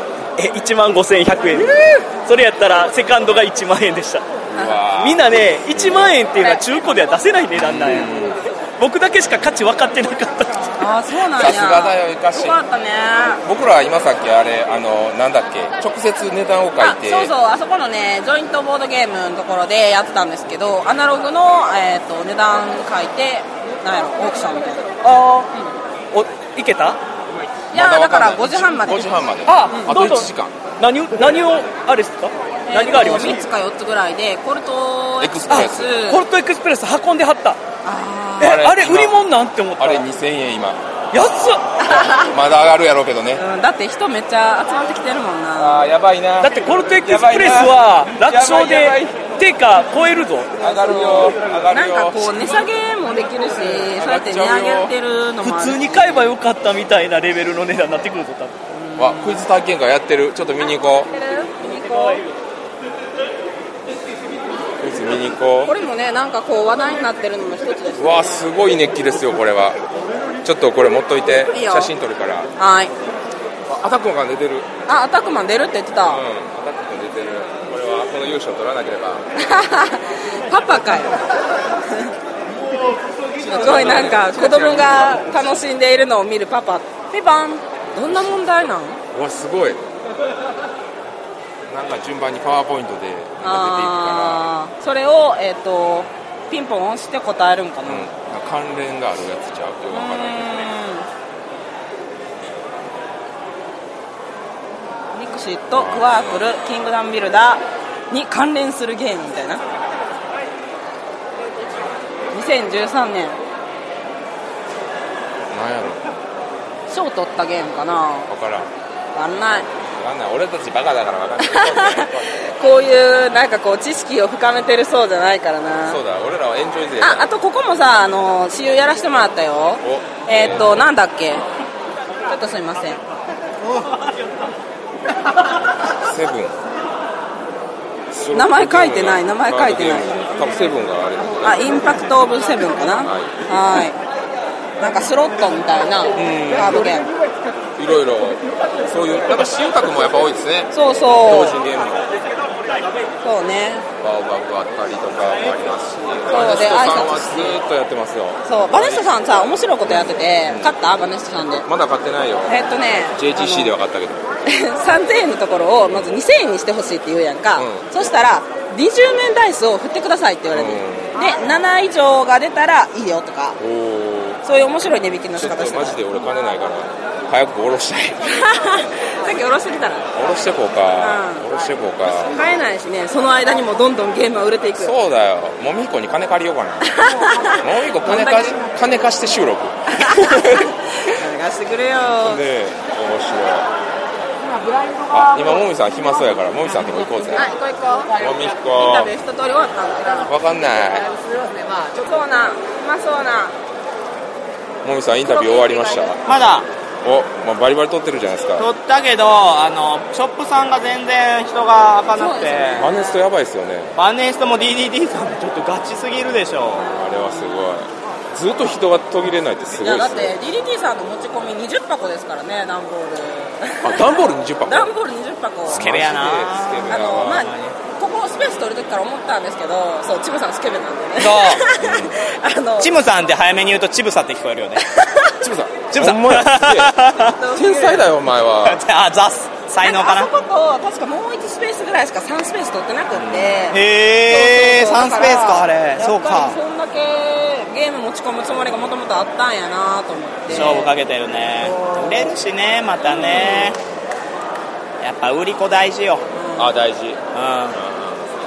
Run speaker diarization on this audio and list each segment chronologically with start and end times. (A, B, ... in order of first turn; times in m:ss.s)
0:00.4-0:04.2 A
0:04.5-0:06.1 B
0:05.0-0:08.1 A
0:07.6-0:08.4 B
0:08.8-0:10.7 A
0:10.8-0:13.4 C
0:11.4-0:12.6 B
0:13.4-0:17.3 B
0:16.8-0:24.9 C
0:25.0-0:25.5 A
0:26.1-0:27.0 A
0:27.7-0:30.5 B
0:27.7-0:29.2 C
0:29.5-0:33.5 A
0:32.7-0:36.2 C
0:35.2-0:35.9 B
0:35.5-0:37.6 A
0:37.8-0:38.6 C
0:38.4-0:39.1 B
0:38.4-0:40.0 A
0:39.8-0:40.8 B
0:41.1-0:41.6 A
0:41.8-0:42.3 C
0:42.3-0:43.4 B
0:43.4-0:45.8 C
0:45.6-0:49.2 B
0:46.4-0:50.5 A
0:50.6-0:52.3 B
0:50.6-0:56.2 C
0:53.6-0:54.9 B
0:55.4-0:58.5 A
0:58.8-0:59.4 C
0:59.0-1:01.1 B
1:01.1-1:02.2 C
1:04.8-1:05.7 B
1:05.6-1:08.4 C
1:08.0-1:09.8 B
1:10.4-1:12.5 B
1:11.5-1:11.9 C
1:12.6-1:12.9 C
1:13.7-1:14.7 B
1:14.9-1:16.2 C
1:16.0-1:19.2 B
1:19.4-1:21.3 C
1:21.8-1:22.1 C
1:23.4-1:25.2 B
1:23.5-1:29.0 C
1:28.1-1:28.4 B
1:29.1-1:29.8 B
1:31.7-1:34.5 B
1:33.4-1:38.1 C
1:37.8-1:40.7 B
1:39.9-1:41.1 C
1:45.1-1:49.6 C
1:45.7-1:46.4 B
1:52.3-1:53.4 C
1:55.5-1:56.0 B
1:56.9-1:58.3 C
1:58.3-1:58.7 B
1:59.1-1:59.7 C
2:00.0-2:02.4 B
2:01.5-2:06.0 C
2:05.9-2:07.2 B
2:07.0-2:11.4 C
2:09.8-2:10.8 B
2:12.3-2:13.0 C
2:16.0-2:16.5 B
2:18.1-2:21.8 B
2:18.3-2:20.0 C
2:21.4-2:24.0 C
2:23.0-2:23.4 B
2:24.8-2:27.1 C
2:26.1-2:26.9 B
2:27.8-2:32.1 B
2:30.7-2:31.6 C
2:33.2-2:33.8 C
2:34.0-2:39.0 B
2:36.3-2:37.6 C
2:38.5-2:41.6 C
2:39.8-2:40.7 B
2:41.6-2:42.6 B
2:42.5-2:43.7 C
2:43.1-2:44.2 B
2:44.4-2:53.6 C
2:47.6-2:47.9 B
2:50.5-2:51.2 B
2:53.6-2:54.4 B
2:54.4-2:56.0 C
2:55.3-2:58.3 B
2:58.4-3:00.1 C
3:00.1-3:02.4 B
3:01.0-3:01.4 C
3:02.2-3:04.9 C
3:04.8-3:07.0 B
3:06.9-3:08.6 C
3:07.6-3:10.7 B
3:10.0-3:12.4 C
3:12.2-3:13.6 B
3:15.1-3:17.5 B
3:17.3-3:18.2 C
3:18.2-3:19.1 B
3:18.7-3:20.3 C
3:20.3-3:21.1 B
3:21.6-3:23.5 C
3:24.8-3:26.2 B
3:25.2-3:26.2 C
3:26.3-3:26.7 D
3:27.0-3:28.7 B
3:28.6-3:32.9 D
3:32.1-3:33.2 C
3:32.8-3:34.0 B
3:34.0-3:36.9 D
3:36.2-3:40.3 B
3:36.8-3:37.7 C
3:39.8-3:45.9 C
3:43.8-3:44.9 B
3:45.7-3:47.5 B
3:45.7-3:47.8 D
3:46.9-3:52.9 C
3:51.2-3:51.6 D
3:51.7-3:52.1 B
3:52.8-3:54.8 D
3:55.4-3:58.8 B
3:55.9-3:57.4 D
3:57.2-3:58.1 C
3:58.6-4:00.3 D
3:59.8-4:10.9 C
4:03.1-4:03.5 B
4:03.7-4:06.6 D
4:10.5-4:10.8 B
4:10.5-4:13.8 D
4:11.6-4:12.3 C
4:13.3-4:13.8 B
4:15.0-4:16.3 D
4:16.3-4:16.7 C
4:16.6-4:17.2 B
4:17.3-4:17.8 D
4:17.7-4:18.2 B